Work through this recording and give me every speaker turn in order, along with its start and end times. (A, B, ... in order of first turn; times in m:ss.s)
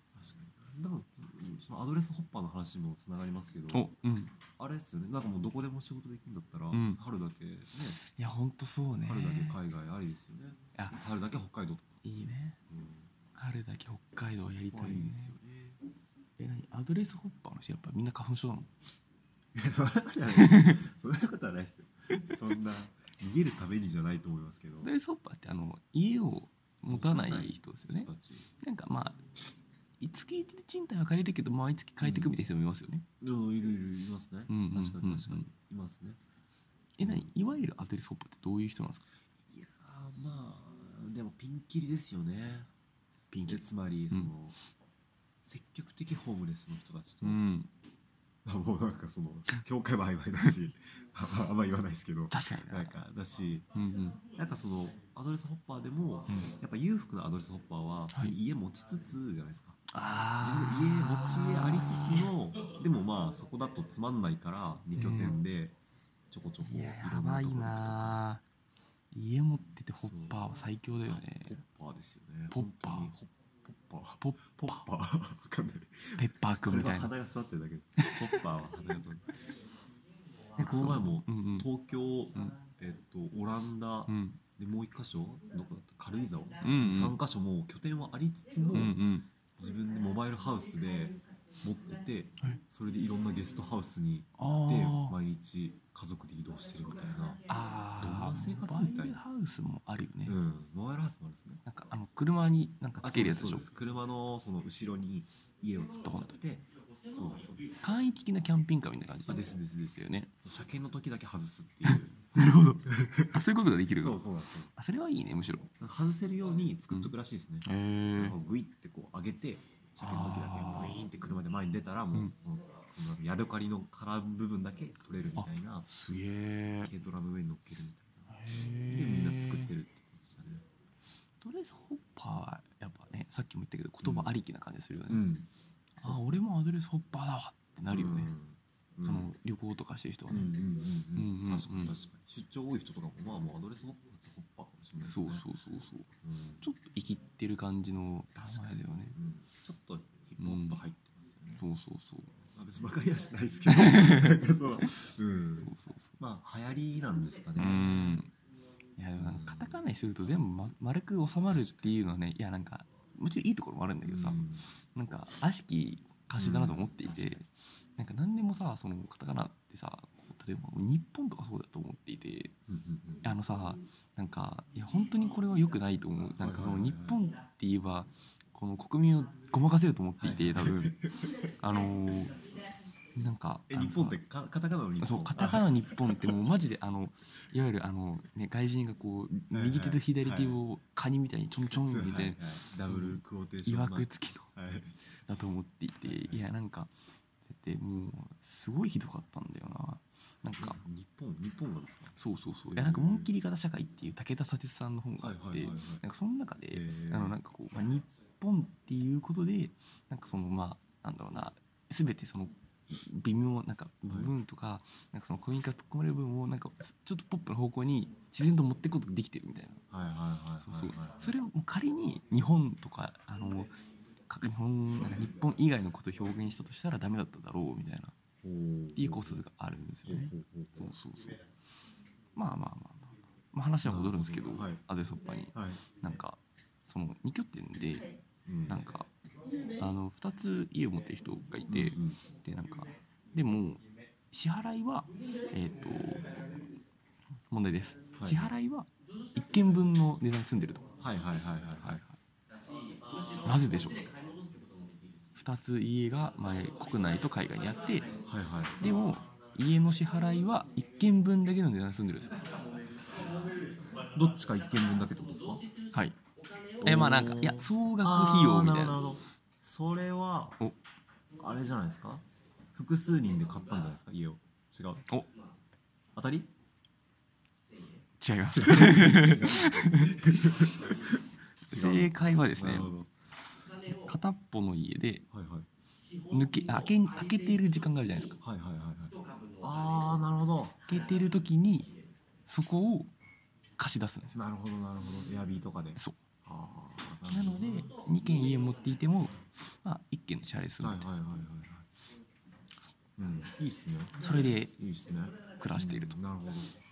0:00.1-0:03.9 A
0:03.7-0:04.3 B
0:04.6-0:08.0 A
0:06.7-0:07.0 B
0:08.0-0:09.6 B
0:09.0-0:12.0 A
0:12.0-0:12.6 B
0:12.7-0:13.1 A
0:13.4-0:15.4 B
0:14.7-0:15.8 A
0:16.4-0:18.7 B
0:19.6-0:24.9 A
0:20.4-0:20.8 B
0:24.8-0:28.1 B
0:26.9-0:28.5 A
0:28.6-0:29.2 B
0:30.0-0:33.1 B
0:32.0-0:32.4 A
0:33.2-0:36.2 A
0:34.5-0:35.5 B
0:37.0-0:39.0 B
0:37.0-0:37.3 A
0:39.4-0:42.7 A
0:43.3-0:44.3 B
0:43.5-0:44.6 A
0:45.4-0:47.4 A
0:47.2-0:47.7 B
0:48.4-0:53.7 A
0:52.3-0:53.0 B
0:53.7-0:54.2 B
0:54.3-0:59.8 A
0:56.3-0:56.5 B
0:59.9-1:02.3 B
1:00.4-1:05.8 A
1:05.0-1:05.4 B
1:06.3-1:08.2 A
1:06.6-1:08.4 B
1:09.1-1:11.6 B
1:10.0-1:10.4 A
1:11.1-1:19.3 A
1:12.5-1:13.1 B
1:14.2-1:14.8 B
1:16.2-1:17.1 B
1:18.0-1:18.4 B
1:20.6-1:21.7 B
1:20.6-1:29.0 A
1:24.1-1:24.4 B
1:26.6-1:27.2 B
1:28.7-1:29.3 B
1:29.6-1:39.2 A
1:34.4-1:35.2 B
1:37.5-1:40.4 B
1:40.3-1:41.6 A
1:41.6-1:43.7 B
1:43.0-1:47.7 A
1:46.0-1:46.4 B
1:47.8-1:50.3 B
1:49.3-1:52.2 A
1:51.8-1:54.2 B
1:52.9-1:53.4 A
1:54.0-1:54.7 A
1:54.8-1:55.7 B
1:55.8-2:06.2 A
1:57.6-1:58.4 B
2:00.0-2:01.0 B
2:05.4-2:06.9 B
2:06.8-2:10.6 A
2:08.3-2:09.7 B
2:11.4-2:15.3 B
2:14.0-2:14.3 A
2:15.1-2:15.5 A
2:16.0-2:18.3 B
2:16.0-2:16.4 A
2:17.9-2:19.3 A
2:19.0-2:20.5 B
2:20.3-2:25.4 A
2:21.2-2:21.9 B
2:25.0-2:26.1 B
2:26.2-2:26.6 A
2:26.6-2:29.2 B
2:28.4-2:31.6 A
2:30.4-2:30.8 B
2:31.6-2:32.3 B
2:32.5-2:38.2 A
2:33.7-2:34.9 B
2:35.6-2:36.2 B
2:37.6-2:38.3 B
2:39.0-2:47.5 B
2:39.2-2:39.8 A
2:41.5-2:42.0 A
2:44.0-2:44.7 A
2:46.4-2:47.4 A
2:48.0-2:52.5 B
2:52.7-2:53.4 A
2:53.2-3:01.0 B
2:56.4-2:57.2 A
3:00.2-3:01.3 A
3:01.6-3:02.4 B
3:03.1-3:04.2 B
3:03.7-3:06.3 A
3:05.0-3:14.5 B
3:09.5-3:10.6 A
3:11.7-3:15.0 A
3:15.2-3:20.8 B
3:16.0-3:16.4 A
3:20.6-3:22.2 A
3:22.2-3:39.8 B
3:22.7-3:23.3 A
3:25.2-3:26.0 A
3:26.7-3:27.4 A
3:34.1-3:34.3 A
3:39.9-3:41.3 A
3:40.6-3:43.8 B
3:44.3-3:48.1 B
3:48.4-3:49.4 A
3:49.0-3:51.4 B
3:50.1-3:50.9 A
3:52.4-3:58.1 B
3:53.8-3:54.8 A
3:55.5-3:55.8 A
3:58.5-3:58.8 A
3:58.7-3:59.1 B
3:59.8-4:06.8 B
4:01.7-4:02.2 A
4:07.5-4:10.9 B
4:08.2-4:08.5 A
4:11.0-4:12.0 A
4:11.8-4:12.2 B
4:13.4-4:14.1 B
4:15.4-4:18.1 B
4:18.2-4:19.0 A
4:18.8-4:22.8 B
4:24.0-4:25.6 A
4:26.8-4:29.0 B
4:26.8-4:30.6 A
4:31.4-4:32.2 A
4:32.7-4:35.0 A
4:36.1-4:36.5 A
4:38.2-4:40.9 B
4:38.5-4:43.1 A
4:41.6-4:42.9 B
4:43.8-4:45.2 B
4:45.3-4:45.7 A
4:46.3-4:48.4 B
4:48.4-4:50.8 A
4:50.9-4:51.9 B
4:52.5-4:53.1 B
4:53.8-4:54.4 B
4:54.3-4:57.9 A
4:57.2-5:01.1 B
5:00.8-5:01.9 A
5:03.2-5:06.8 A
5:04.2-5:04.7 B
5:05.6-5:06.2 B